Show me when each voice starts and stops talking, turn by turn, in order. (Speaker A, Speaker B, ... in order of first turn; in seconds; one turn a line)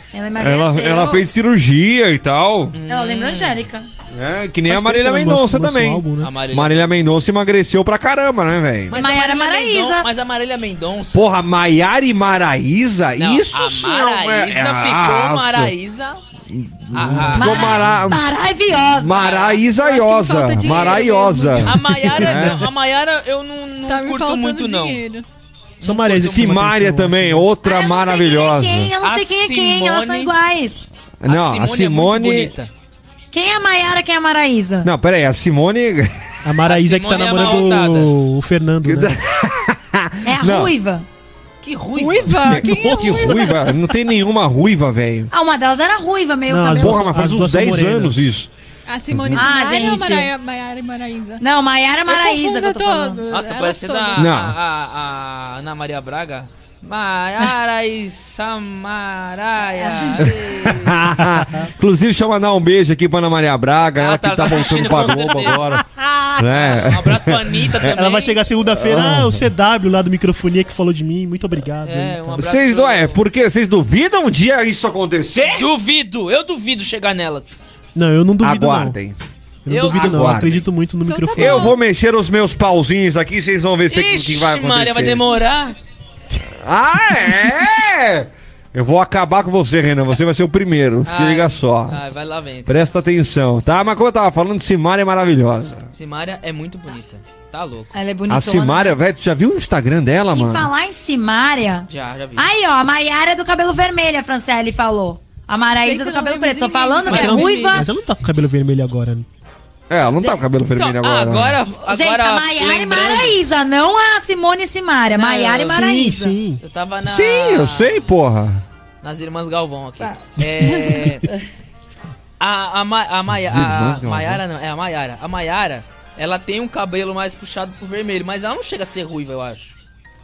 Speaker A: 0.1-1.3
Speaker B: 0.4-2.8
Speaker C: 2.7-3.6
Speaker A: 2.9-3.9
Speaker B: 4.1-9.0
Speaker D: 4.7-6.3
Speaker C: 6.2-7.0
Speaker C: 8.9-11.3
Speaker A: 8.9-10.1
Speaker B: 11.1-15.7
Speaker C: 13.2-16.2
Speaker B: 16.5-18.3
Speaker C: 16.9-18.0
Speaker D: 17.0-17.4
Speaker A: 17.3-19.2
Speaker B: 18.9-22.7
Speaker C: 19.1-19.6
Speaker E: 19.8-22.1
Speaker C: 20.6-21.1
Speaker C: 21.6-25.0
Speaker D: 22.3-22.7
Speaker E: 23.9-25.3
Speaker C: 25.8-26.6
Speaker D: 25.8-27.5
Speaker B: 26.2-28.9
Speaker A: 27.6-30.9
Speaker C: 29.0-30.3
Speaker B: 31.2-32.5
Speaker C: 31.2-32.7
Speaker A: 33.3-34.9
Speaker B: 34.8-36.1
Speaker D: 36.4-39.1
Speaker C: 36.6-38.1
Speaker B: 38.8-40.7
Speaker A: 40.2-41.1
Speaker C: 41.6-42.5
Speaker E: 42.0-43.7
Speaker B: 42.5-45.3
Speaker D: 42.5-43.5
Speaker A: 45.3-47.1
Speaker D: 46.5-48.3
Speaker B: 46.7-48.5
Speaker E: 48.9-51.4
Speaker A: 49.3-50.3
Speaker A: 51.4-53.2
Speaker E: 52.1-54.3
Speaker C: 53.3-61.1
Speaker B: 54.2-54.6
Speaker A: 59.8-60.5
Speaker B: 60.3-65.8
Speaker D: 61.2-61.6
Speaker C: 64.0-65.6
Speaker D: 64.7-65.8
Speaker B: 66.4-68.1
Speaker C: 66.4-68.4
Speaker D: 67.8-72.4
Speaker B: 68.7-69.5
Speaker C: 71.8-73.2
Speaker B: 72.4-75.7
Speaker C: 75.5-77.6
Speaker D: 78.0-79.0
Speaker B: 78.4-79.2
Speaker D: 79.7-81.8
Speaker C: 79.7-80.6
Speaker B: 79.8-80.6
Speaker E: 81.1-81.8
Speaker B: 81.3-85.2
Speaker C: 83.9-85.8
Speaker B: 86.6-92.0
Speaker C: 91.0-92.9
Speaker B: 92.7-95.9
Speaker C: 95.9-97.9
Speaker A: 97.9-99.0
Speaker B: 98.3-100.7
Speaker A: 100.3-107.9
Speaker C: 101.9-102.5
Speaker E: 105.8-107.9
Speaker D: 107.1-109.3
Speaker C: 107.1-107.4
Speaker B: 109.9-111.6
Speaker C: 110.8-113.4
Speaker A: 111.8-116.4
Speaker C: 115.1-115.8
Speaker D: 115.6-116.6
Speaker C: 116.6-118.1
Speaker B: 117.0-118.6
Speaker C: 119.0-121.3
Speaker C: 122.4-129.8
Speaker B: 123.4-124.4